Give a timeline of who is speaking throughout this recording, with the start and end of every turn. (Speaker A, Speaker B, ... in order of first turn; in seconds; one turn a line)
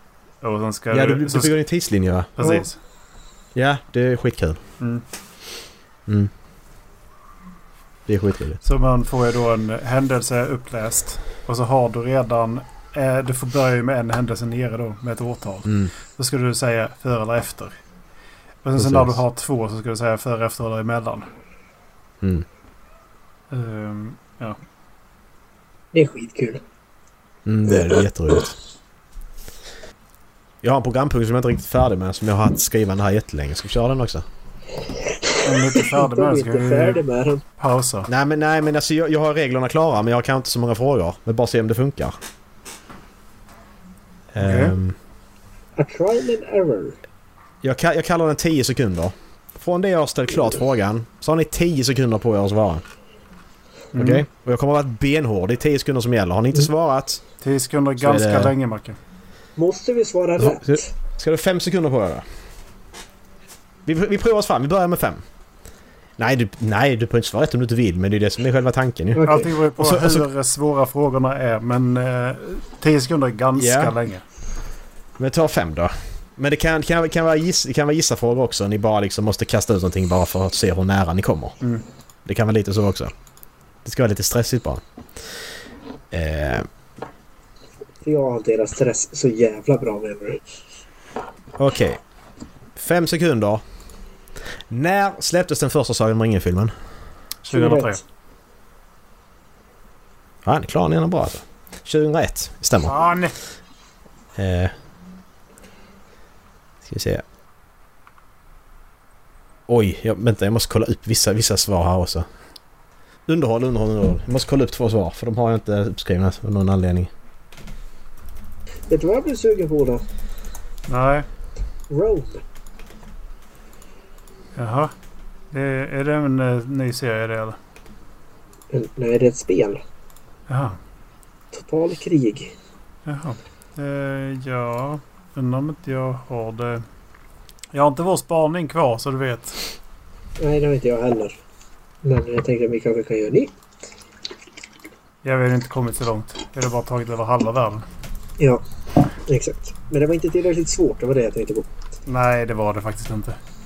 Speaker A: 0.4-1.5
Speaker B: 0.9-2.6
Speaker A: 2.4-2.8
Speaker B: 3.5-4.6
Speaker B: 8.1-8.6
Speaker A: 8.6-17.8
Speaker A: 18.6-21.3
Speaker B: 18.8-19.2
Speaker B: 22.2-22.5
Speaker A: 23.5-24.6
Speaker C: 25.9-26.6
Speaker B: 27.5-28.6
Speaker B: 30.6-34.3
Speaker C: 35.2-37.4
Speaker A: 35.4-37.0
Speaker A: 37.6-38.1
Speaker B: 38.1-42.1
Speaker B: 44.3-45.0
Speaker A: 44.4-44.8
Speaker C: 45.8-47.0
Speaker B: 47.6-52.8
Speaker A: 53.9-54.2
Speaker B: 54.0-57.2
Speaker A: 57.4-59.0
Speaker B: 58.0-58.5
Speaker C: 59.6-60.9
Speaker B: 60.4-62.2
Speaker B: 63.9-65.2
Speaker B: 66.2-70.3
Speaker C: 69.1-69.5
Speaker A: 69.2-74.2
Speaker B: 73.6-74.0
Speaker B: 75.2-81.5
Speaker B: 82.2-83.1
Speaker B: 83.8-84.8
Speaker B: 86.1-86.7
Speaker C: 88.0-90.4
Speaker B: 91.6-92.0
Speaker B: 92.8-93.6
Speaker B: 94.7-96.7
Speaker A: 97.4-98.0
Speaker C: 97.5-98.0
Speaker B: 100.5-103.0
Speaker A: 102.8-103.4
Speaker B: 104.4-104.7
Speaker B: 106.8-107.2
Speaker B: 109.7-112.3
Speaker B: 113.3-117.1
Speaker C: 118.9-120.0
Speaker A: 120.9-121.3
Speaker C: 121.9-122.4
Speaker A: 124.6-124.9
Speaker A: 125.5-127.6
Speaker C: 128.7-129.8
Speaker A: 130.5-130.8
Speaker C: 131.5-132.5
Speaker A: 133.1-136.8
Speaker A: 137.7-139.6
Speaker C: 140.4-141.4
Speaker C: 142.0-143.5
Speaker A: 145.2-147.9
Speaker C: 149.3-151.7
Speaker A: 152.1-153.4